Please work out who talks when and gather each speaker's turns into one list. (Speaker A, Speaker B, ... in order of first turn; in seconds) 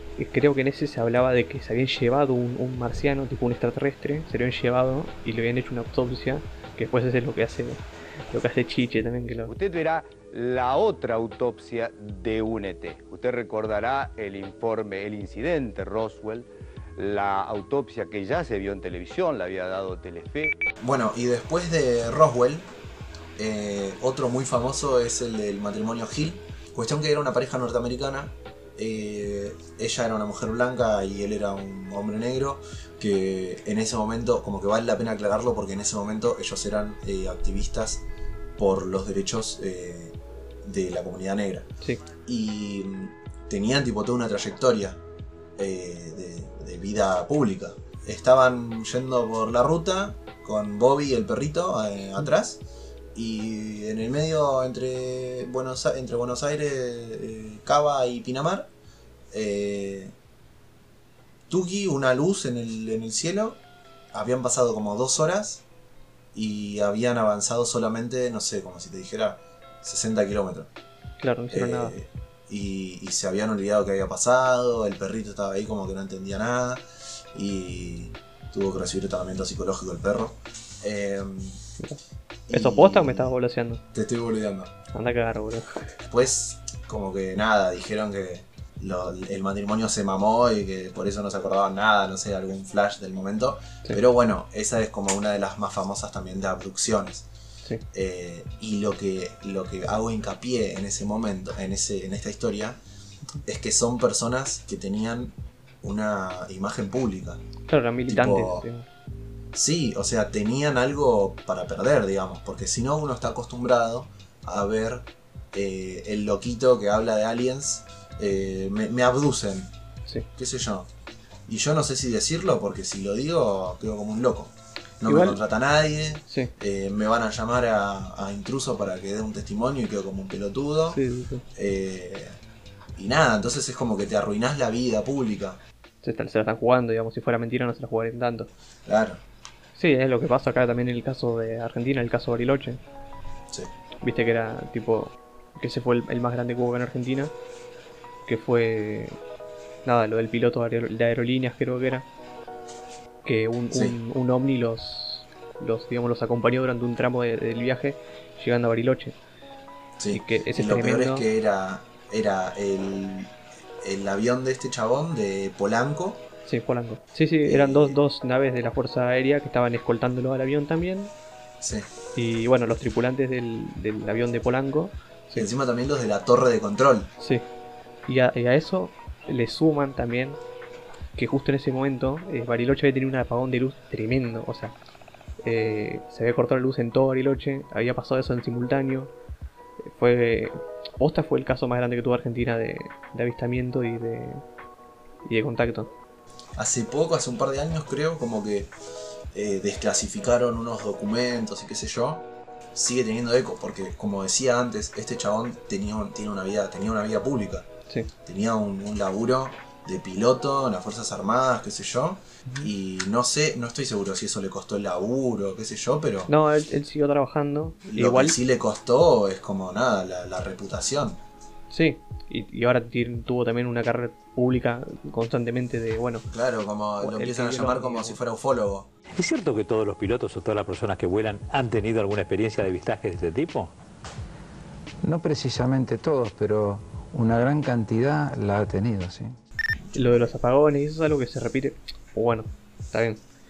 Speaker A: 0.2-9.5, 71.2-71.9, 82.5-83.8, 84.9-85.8, 107.7-108.8, 125.0-125.4, 130.9-131.4, 136.0-138.5, 139.8-142.8, 144.0-147.3, 148.3-149.2, 149.8-152.1, 153.2-159.2, 160.1-161.2, 166.4-171.1, 172.1-175.5, 177.2-177.4, 178.1-180.4, 181.2-184.7, 185.4-189.1, 189.8-194.4, 195.2-195.9, 216.3-218.3, 221.7-226.3, 227.0-228.2, 239.9-243.2
Speaker B: 9.4-20.6
Speaker C: 20.8-22.7, 23.4-38.0, 38.6-41.7, 42.2-45.0, 45.6-52.6, 53.1-58.7, 59.3-60.1, 61.5-63.6, 64.1-65.6, 66.3-70.7, 71.5-81.6, 82.5-83.3, 83.9-84.8, 86.0-97.2, 97.9-102.8, 103.4-107.4, 108.1-108.7, 109.5-119.7, 120.3-120.9, 121.5-131.0, 131.5-132.4, 133.0-135.6, 138.8-139.2, 153.7-153.9, 160.0-166.2, 167.4-168.0, 171.6-171.9, 175.3-177.1, 196.6-198.7, 199.3-207.7, 208.2-216.3, 217.9-221.2, 226.3-228.9, 239.9-240.3
Speaker D: 229.1-233.7
Speaker E: 235.0-239.3